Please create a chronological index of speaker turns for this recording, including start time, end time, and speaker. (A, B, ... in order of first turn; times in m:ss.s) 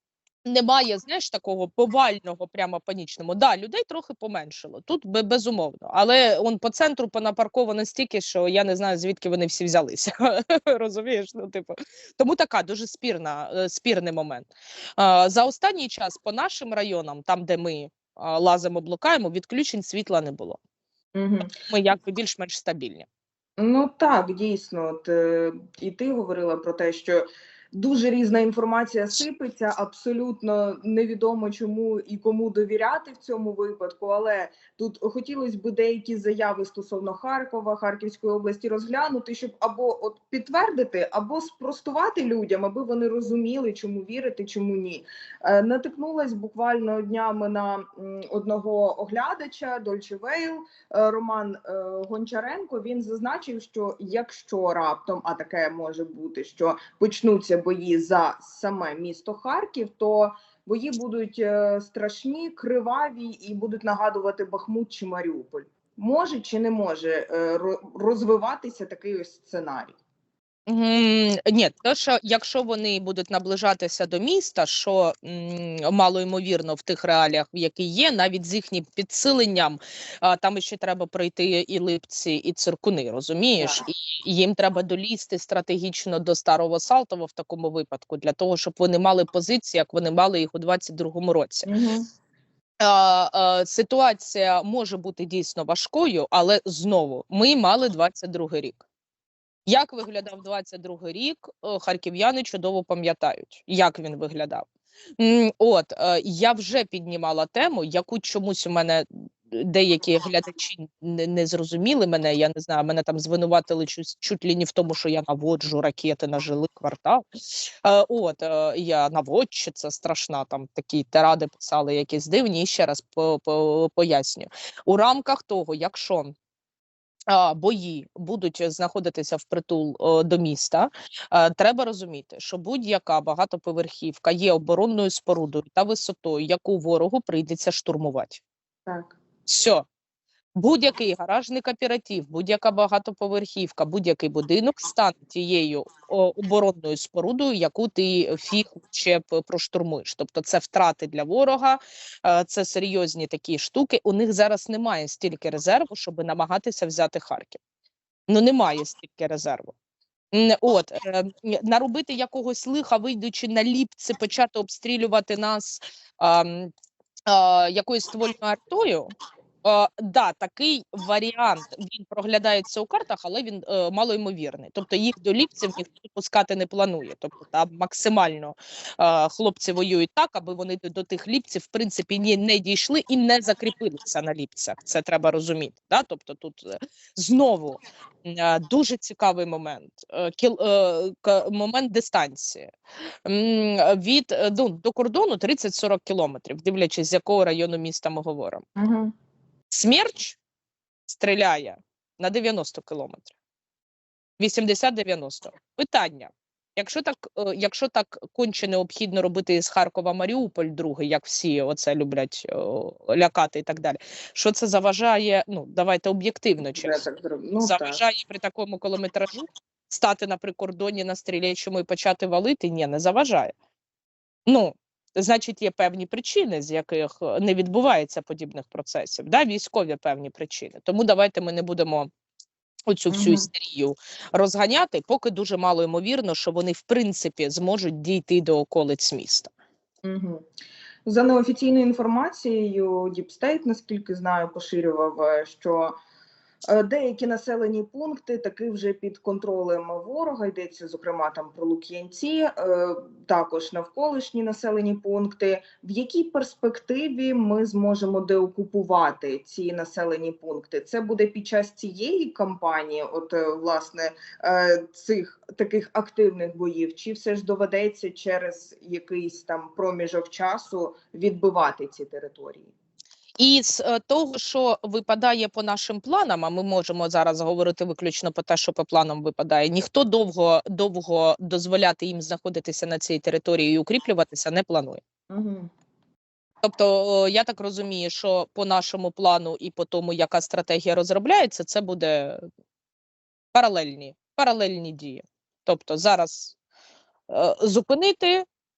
0:00.4-0:20.6 A
0:21.2-0:21.5 B
0:21.5-0:23.1 A
0:23.6-1:10.0 B
1:10.7-1:31.7 A
1:23.6-1:23.9 B
1:31.7-1:32.1 B
1:32.8-1:38.8 A
1:39.7-1:44.7 A
1:45.2-2:06.3 A
2:07.3-2:18.4 A
2:18.9-2:19.2 B
2:19.5-2:19.9 A
2:20.6-2:37.6 A
2:38.3-2:39.7 A
2:40.3-2:46.7 A
2:47.3-2:49.1 A
2:49.6-3:12.7 A
3:13.2-3:18.6 A
3:18.8-3:19.1 B
3:19.7-3:20.4 A
3:21.1-3:23.3 A
3:24.4-3:37.0 A
3:36.7-3:38.0 B
3:37.6-3:43.5 A
3:44.5-3:52.1 A
3:52.9-3:59.5 A
3:53.1-3:53.5 B
4:00.0-4:00.4 B
4:01.1-4:06.0 B
4:06.7-4:32.7 B
4:33.4-4:45.0 A
4:45.3-4:45.7 B
4:46.6-4:52.4 A
4:53.5-4:56.6 A
4:57.3-4:58.5 A